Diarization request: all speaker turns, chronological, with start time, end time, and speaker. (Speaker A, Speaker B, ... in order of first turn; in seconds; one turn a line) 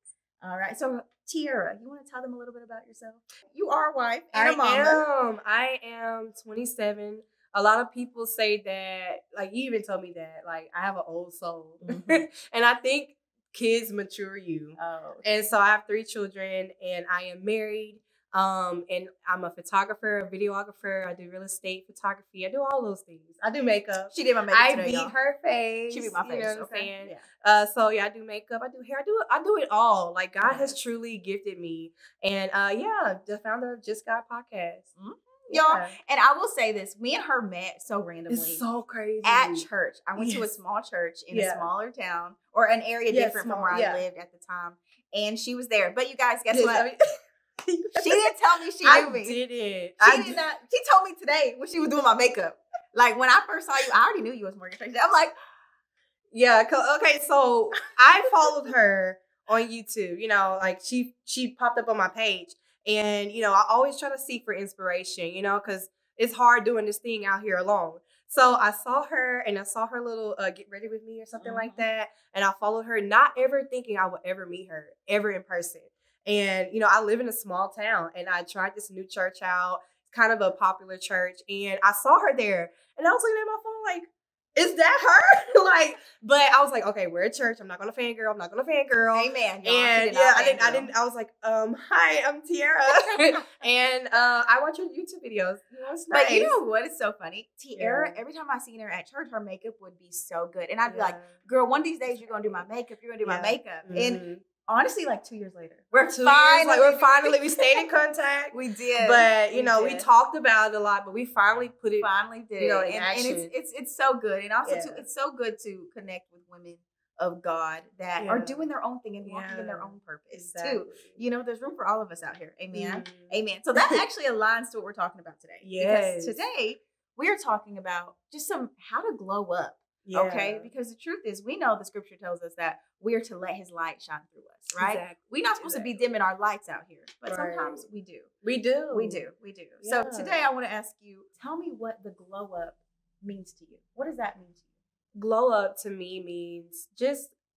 Speaker A: 0.4-5.0
Speaker B: 4.3-34.9
Speaker A: 11.8-12.3
Speaker A: 14.8-15.4
Speaker A: 24.1-25.1
Speaker A: 25.9-27.2
Speaker A: 30.4-30.8
Speaker A: 35.0-38.6
Speaker B: 35.5-36.0
Speaker B: 38.3-40.5
Speaker A: 39.2-46.9
Speaker B: 41.3-41.7
Speaker B: 43.1-44.0
Speaker B: 46.5-47.0
Speaker B: 47.6-48.2
Speaker A: 48.0-49.4
Speaker B: 48.8-50.4
Speaker A: 50.0-55.4
Speaker B: 56.3-96.6
Speaker A: 71.4-71.9
Speaker A: 89.1-90.9
Speaker A: 92.9-93.4
Speaker A: 96.1-107.9
Speaker B: 97.8-98.2
Speaker B: 100.8-101.4
Speaker B: 102.1-102.7
Speaker B: 103.2-104.5
Speaker B: 106.1-113.5
Speaker A: 108.5-110.1
Speaker A: 112.0-138.3
Speaker B: 114.7-115.1
Speaker B: 118.2-118.7
Speaker B: 119.2-121.2
Speaker B: 122.7-124.0
Speaker B: 125.6-126.4
Speaker B: 130.1-130.7
Speaker B: 134.8-136.0
Speaker B: 137.3-137.9
Speaker B: 138.4-139.3
Speaker A: 138.9-144.6
Speaker B: 139.8-140.5
Speaker B: 145.2-147.3